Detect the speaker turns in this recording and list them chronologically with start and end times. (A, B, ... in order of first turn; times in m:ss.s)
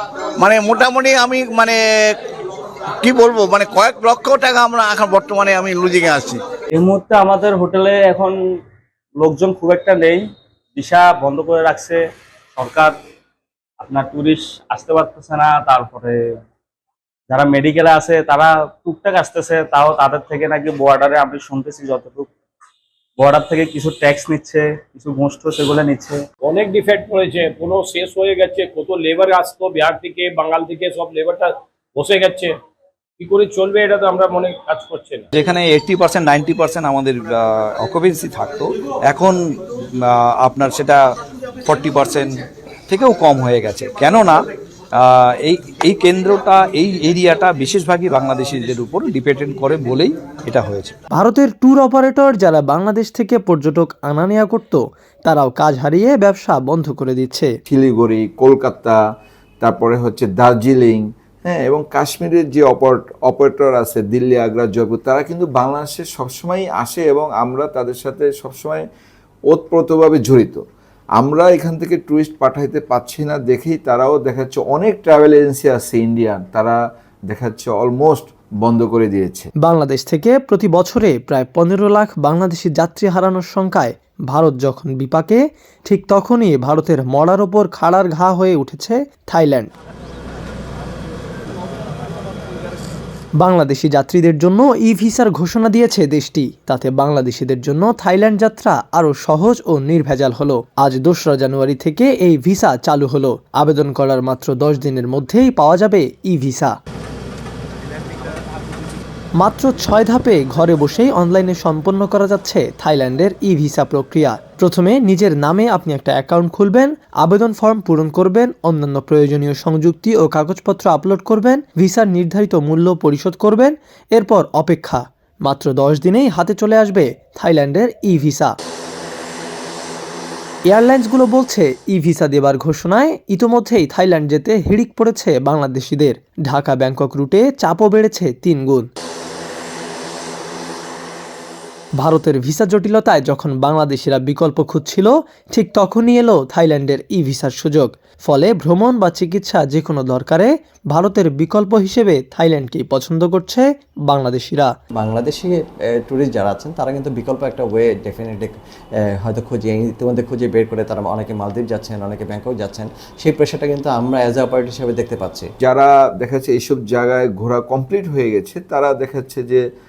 0:00.4-0:02.2 A
0:03.0-0:06.4 A
0:06.8-0:08.4 B
0:09.2-0:10.2 B
0:10.8-0:12.0 B
0:12.6-0:12.9 B
0:13.8-0:16.2 B
0:17.3-0:22.3 B
0:23.2-0:26.2 B
0:26.4-0:32.5 C
0:33.2-0:35.2 C
0:35.3-0:39.4 D
0:40.0-0:41.0 D
0:41.6-0:44.4 D
0:45.0-0:50.9 D
0:51.1-0:57.5 E
0:57.7-0:59.0 F
0:59.6-1:08.8 F
1:09.5-1:10.6 F
1:11.2-1:16.8 F
1:17.3-1:19.5 F
1:19.6-1:29.7 E
1:33.4-1:46.7 E
1:49.4-2:08.6 E
2:10.7-2:18.9 E
2:22.0-2:34.7 E
2:35.0-2:38.5 G
2:39.2-2:45.5 G
2:45.6-2:49.6 F